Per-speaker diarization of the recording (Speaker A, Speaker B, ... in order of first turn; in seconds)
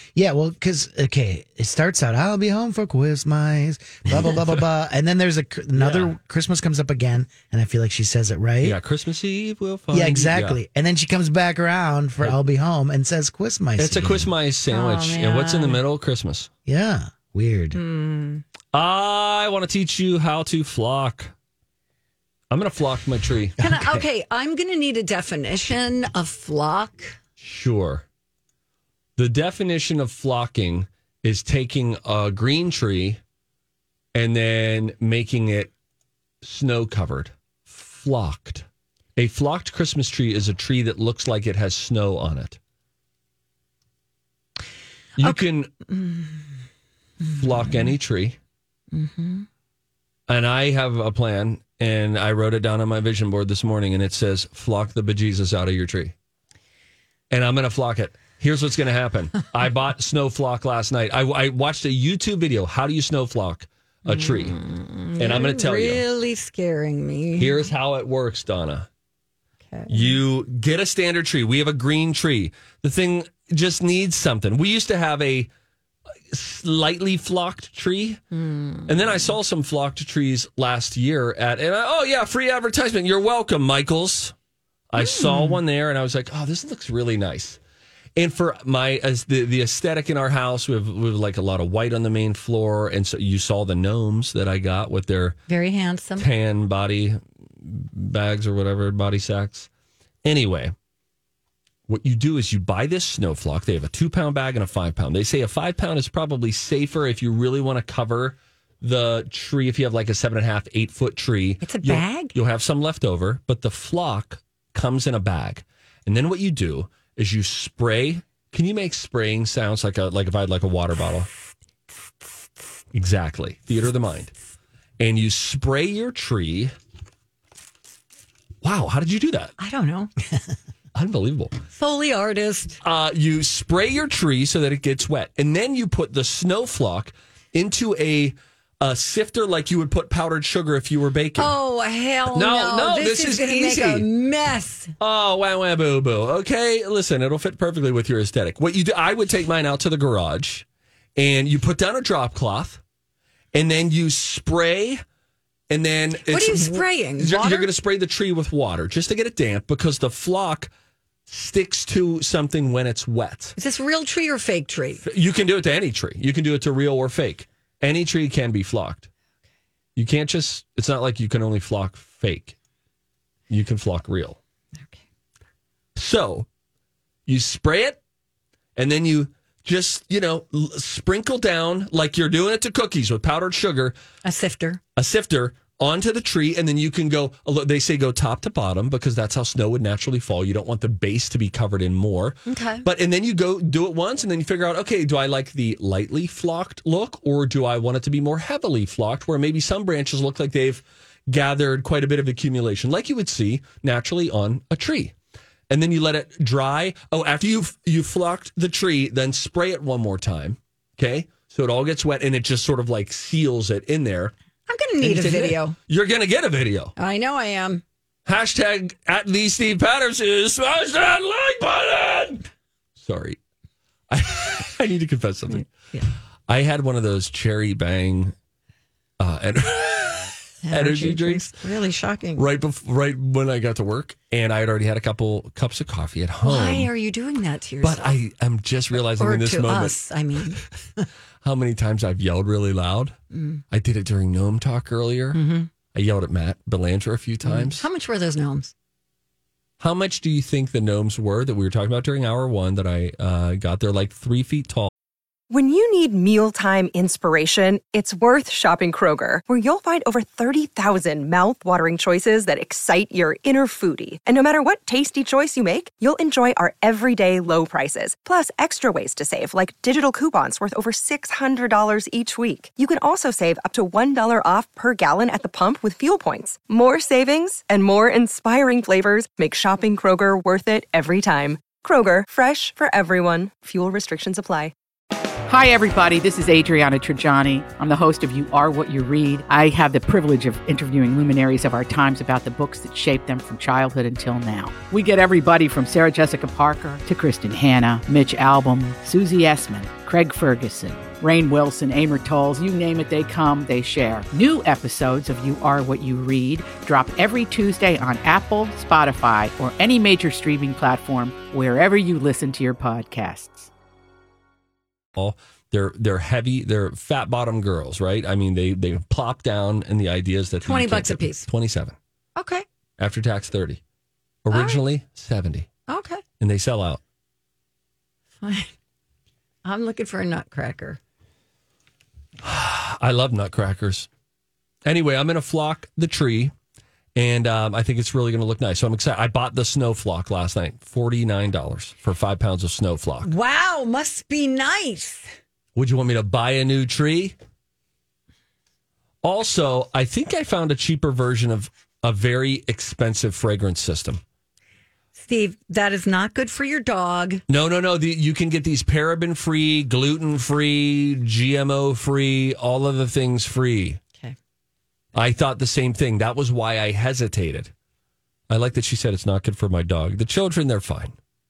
Speaker A: 0.1-8.8, 9.9-14.3, 16.7-17.8, 23.6-24.0
Speaker B: 5.8-6.1, 8.6-10.6, 13.8-16.5, 18.7-21.3, 22.5-23.6, 27.4-28.0, 29.2-33.2, 34.1-35.7, 36.4-38.6, 39.2-42.6, 45.2-45.7, 47.4-48.4, 50.3-56.1, 57.3-64.6, 65.2-66.0, 67.4-68.9, 69.9-75.5, 76.3-78.2, 78.9-84.3, 84.9-87.6, 88.2-95.4, 96.2-99.7, 100.2-100.7, 101.9-121.3, 122.9-124.3, 125.0-126.7, 128.6-129.6, 130.9-131.6, 132.8-141.5, 142.3-144.1, 145.0-150.7, 151.2-152.8, 153.5-155.0, 155.7-160.7, 161.3-163.6, 165.0-169.1, 170.0-172.6, 173.5-174.4, 176.0-176.5, 177.3-178.0, 178.8-184.0, 185.0-205.1, 205.7-214.3, 215.0-216.9, 218.3-222.4, 223.0-223.4, 224.1-225.7, 226.5-228.3, 229.2-231.5, 232.4-236.9, 237.8-240.7, 241.4-243.2, 243.7-245.4, 245.9-247.9, 249.8-254.9, 315.2-321.9, 323.0-323.8, 324.4-325.7, 326.4-327.0, 332.4-334.1, 334.9-336.5, 337.2-343.3, 345.8-347.4, 349.2-354.2, 357.5-364.0, 365.1-367.7, 368.5-371.1
Speaker C: 14.7-15.8, 17.7-18.4, 23.6-27.2, 45.2-46.3, 48.9-49.5, 64.1-67.7, 69.7-70.2, 78.3-79.1, 85.0-85.6, 95.5-96.3, 111.6-112.3, 129.6-130.1, 131.7-132.8, 141.4-144.9, 156.2-157.7, 163.6-165.0, 184.2-184.8, 192.5-192.9, 214.7-215.8, 217.0-217.8, 225.6-226.1, 230.6-232.4, 236.4-238.1, 239.1-240.6, 243.3-243.6, 245.3-245.7, 247.4-248.7, 320.7-321.5, 322.4-322.6, 324.5-324.8, 325.9-326.2, 328.4-328.7, 329.6-331.0, 343.2-345.2, 355.2-357.4
Speaker D: 255.5-284.7
Speaker E: 285.5-313.7